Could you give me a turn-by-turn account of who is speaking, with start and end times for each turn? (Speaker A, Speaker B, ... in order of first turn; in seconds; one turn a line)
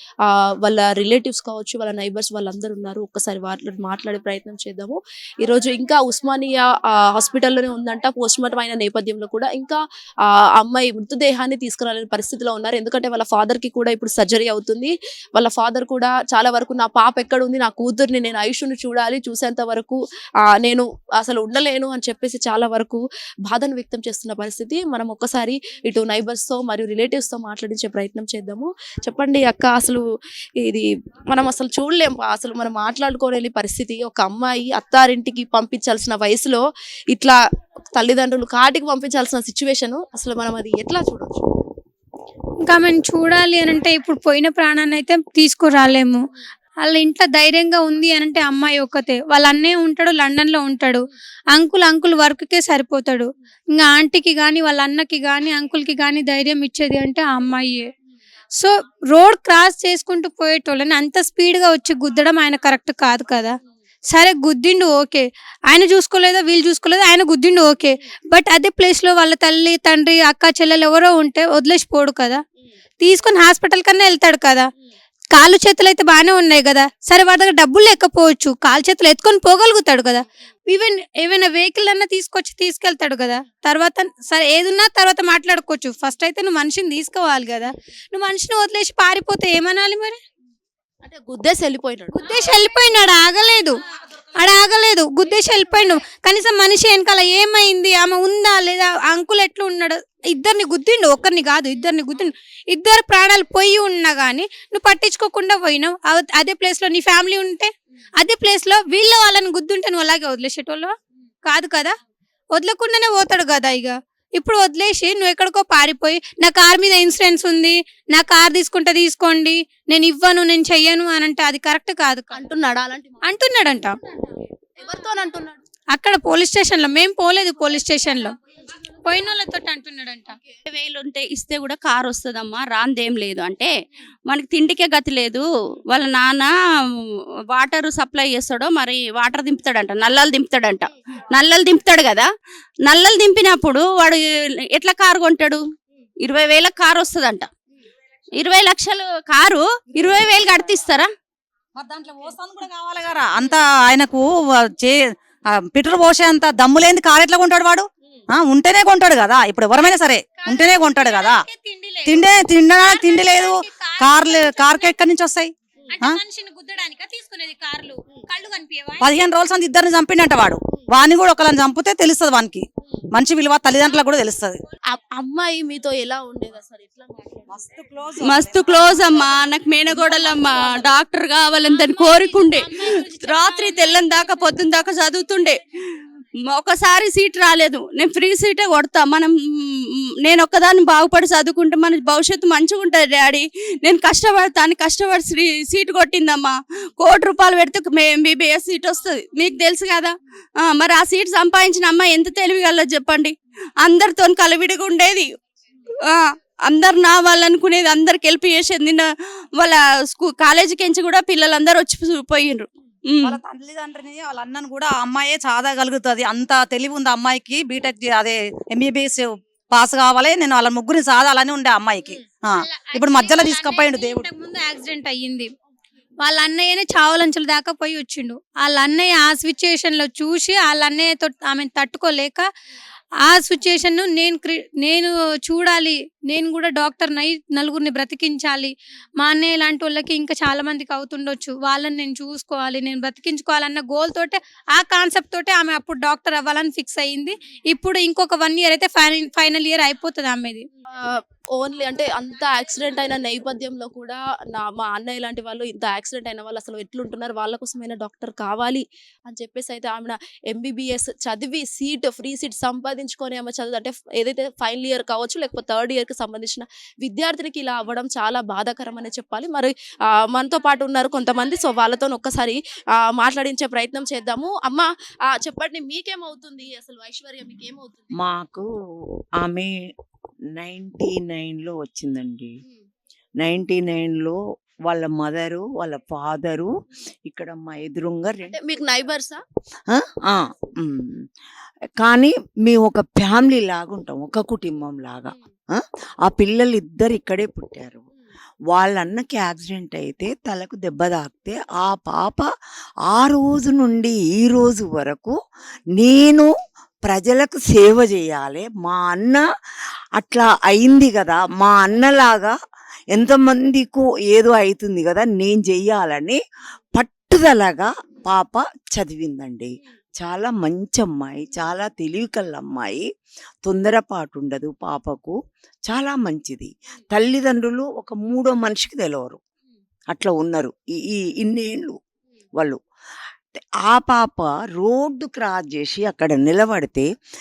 Speaker A: 0.7-9.8
Speaker A: 10.6-20.0
Speaker A: 20.6-30.0
Speaker A: 30.6-37.4
Speaker A: 38.0-41.5
Speaker B: 42.6-46.2
Speaker B: 46.8-51.0
Speaker B: 51.5-57.9
Speaker B: 58.5-63.6
Speaker B: 64.1-72.4
Speaker B: 73.0-74.7
Speaker B: 75.3-90.2
Speaker A: 91.0-92.2
Speaker B: 92.1-93.8
Speaker B: 94.3-112.0
Speaker B: 112.5-122.4
Speaker A: 122.3-123.2
Speaker B: 123.2-124.0
Speaker A: 124.8-125.6
Speaker B: 125.9-128.3
Speaker B: 129.0-130.4
Speaker C: 130.7-133.7
Speaker C: 134.3-136.5
Speaker C: 137.5-142.3
Speaker C: 142.8-144.2
Speaker C: 144.7-145.6
Speaker C: 146.2-147.5
Speaker C: 148.4-151.1
Speaker D: 151.8-154.3
Speaker D: 155.6-161.4
Speaker B: 160.4-165.0
Speaker D: 162.1-165.5
Speaker B: 165.9-169.1
Speaker D: 169.0-174.6
Speaker A: 174.9-177.7
Speaker D: 177.5-179.3
Speaker C: 178.2-185.6
Speaker B: 181.7-184.3
Speaker C: 186.5-205.3
Speaker C: 206.1-213.4
Speaker D: 213.2-224.3
Speaker B: 222.1-225.5
Speaker B: 226.2-232.4
Speaker B: 233.3-250.7
Speaker A: 251.0-278.1
Speaker E: 278.2-278.6
Speaker E: 279.4-279.8
Speaker E: 280.6-282.6
Speaker E: 283.4-284.4
Speaker E: 284.9-286.7
Speaker E: 287.3-288.6
Speaker A: 288.5-289.4
Speaker E: 289.9-291.2
Speaker E: 292.0-298.0
Speaker E: 298.7-302.5
Speaker E: 303.1-305.4
Speaker E: 306.0-306.5
Speaker E: 307.1-309.4
Speaker E: 310.2-312.6
Speaker E: 313.1-316.4
Speaker E: 317.0-323.1
Speaker E: 323.7-325.4
Speaker E: 325.9-329.4
Speaker E: 330.1-332.0
Speaker E: 333.9-337.1